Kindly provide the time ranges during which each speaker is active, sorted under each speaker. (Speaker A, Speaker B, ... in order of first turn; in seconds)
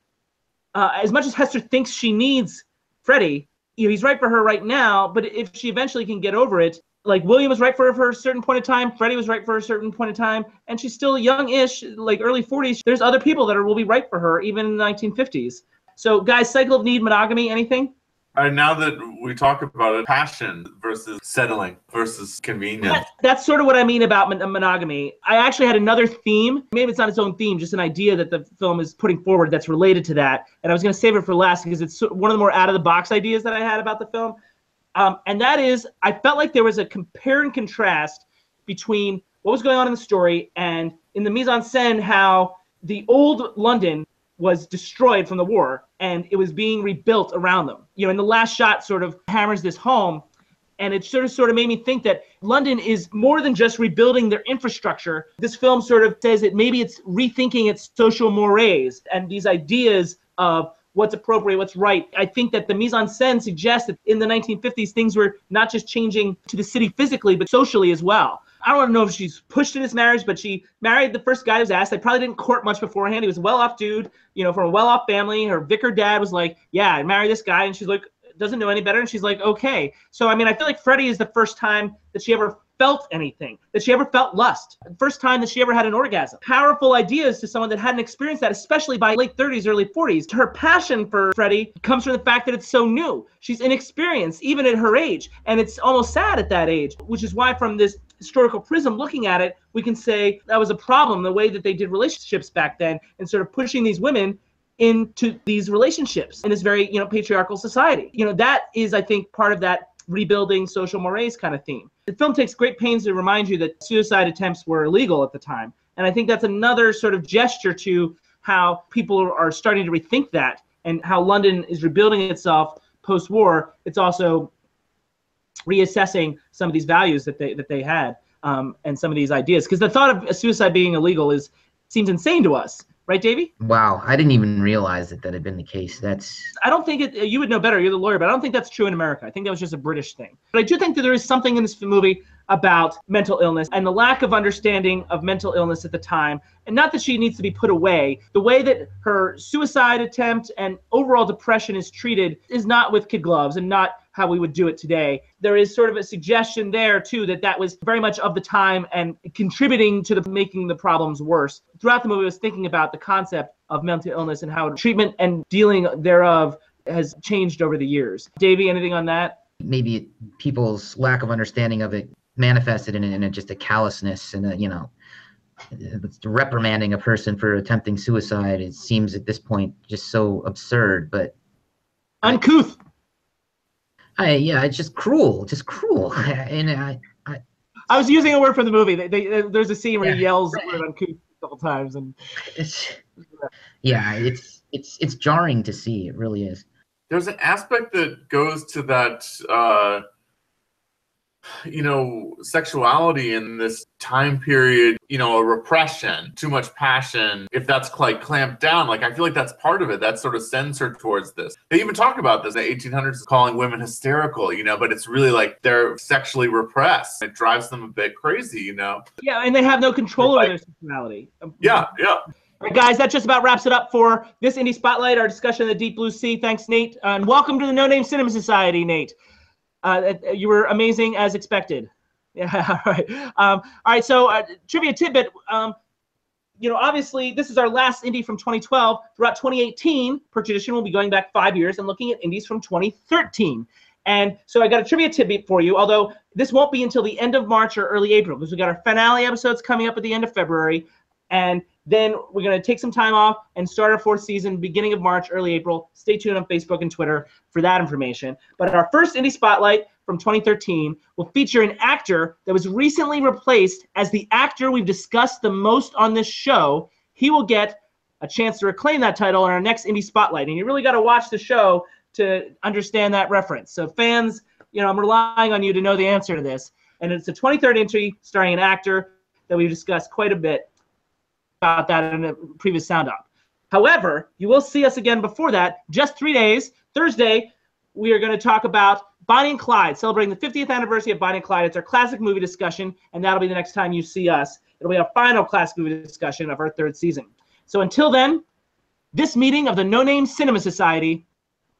Speaker A: 0.8-17.9, 22.8-34.4, 35.0-50.2, 50.8-124.5, 125.7-133.5, 136.6-169.4, 182.2-182.8, 187.9-192.2, 219.2-221.9, 222.6-229.2, 229.8-235.8, 236.6-280.7, 281.6-298.4, 299.1-301.2
Speaker B: 18.4-23.0, 197.1-200.0, 201.6-219.0, 220.2-220.5, 221.6-222.2
Speaker C: 133.6-136.5, 169.6-174.9, 175.7-181.3, 184.2-187.4, 190.0-190.6, 192.4-193.0, 193.8-196.6